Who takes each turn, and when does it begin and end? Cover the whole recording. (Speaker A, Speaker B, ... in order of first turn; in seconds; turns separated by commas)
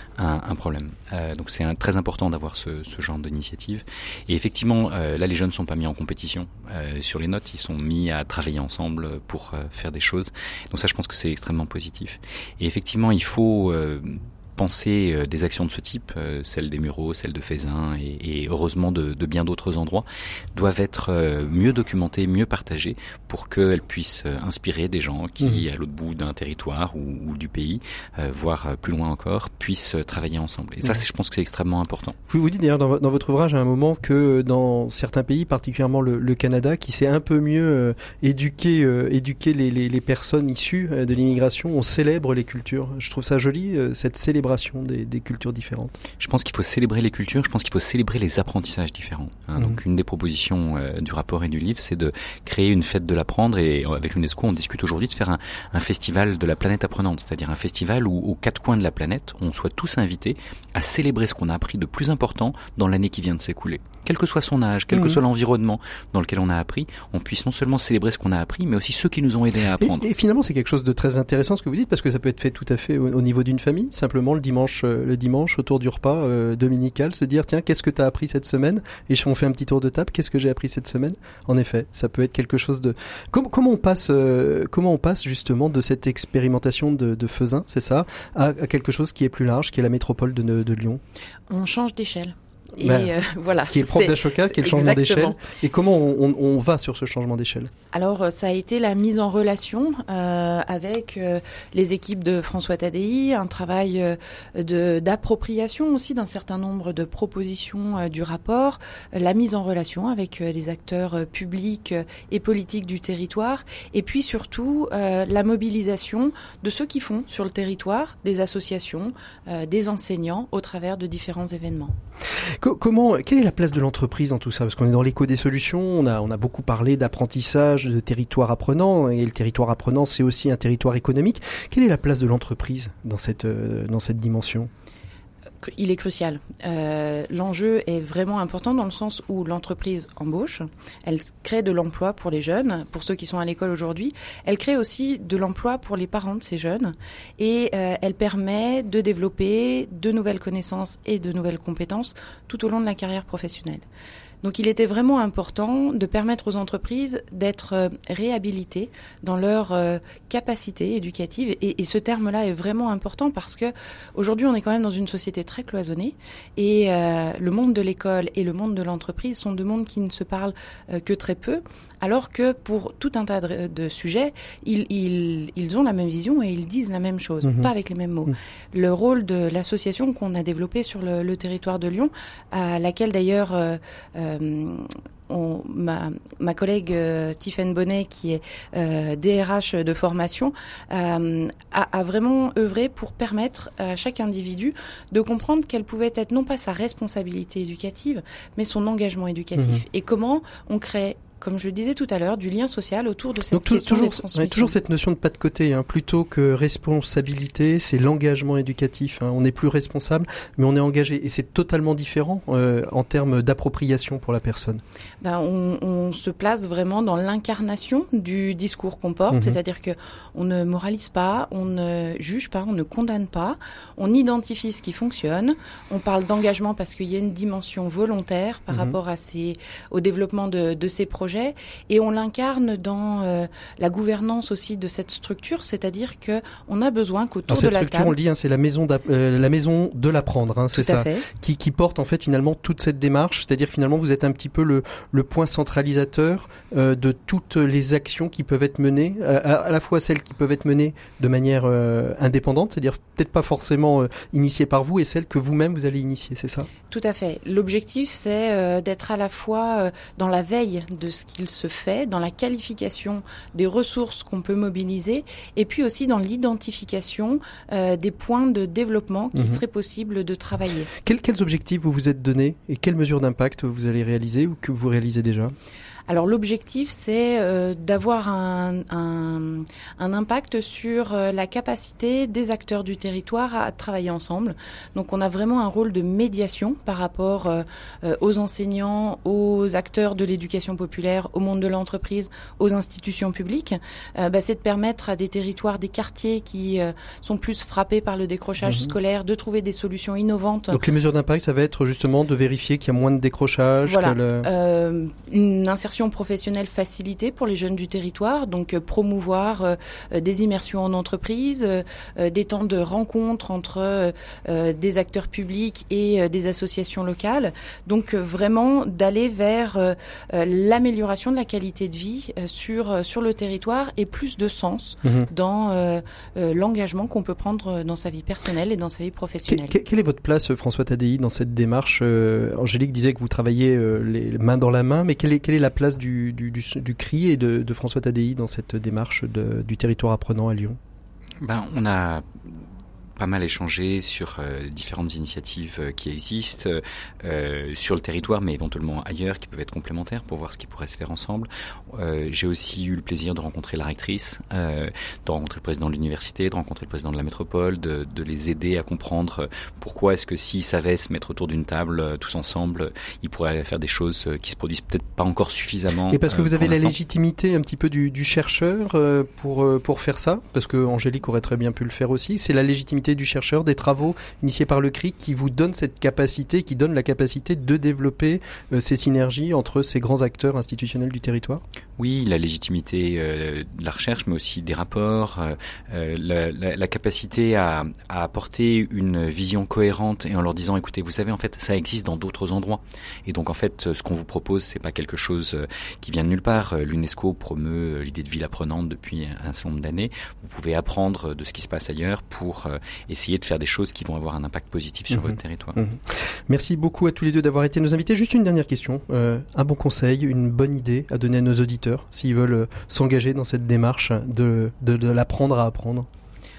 Speaker A: 0.2-32.2, Speaker B: 32.3-46.0, Speaker A: 46.2-70.0, Speaker B: 69.8-91.0, Speaker C: 91.5-95.4, Speaker B: 92.8-93.1, Speaker B: 93.7-97.7, Speaker C: 97.9-121.9, Speaker B: 122.6-134.7, Speaker C: 135.6-153.8, Speaker C: 154.4-204.8, Speaker B: 177.4-177.7, Speaker B: 199.6-199.8, Speaker B: 203.5-214.8, Speaker C: 215.2-238.1, Speaker B: 219.3-219.6, Speaker B: 228.7-229.0, Speaker B: 237.5-256.7, Speaker C: 240.7-241.3, Speaker C: 256.9-270.9, Speaker B: 271.0-275.5, Speaker C: 276.1-300.8, Speaker B: 298.6-298.9, Speaker B: 300.7-304.5, Speaker C: 303.8-329.7, Speaker B: 329.5-340.8, Speaker A: 341.4-342.6, Speaker A: 343.2-366.9, Speaker B: 366.1-381.6, Speaker A: 382.0-405.8, Speaker B: 405.1-416.1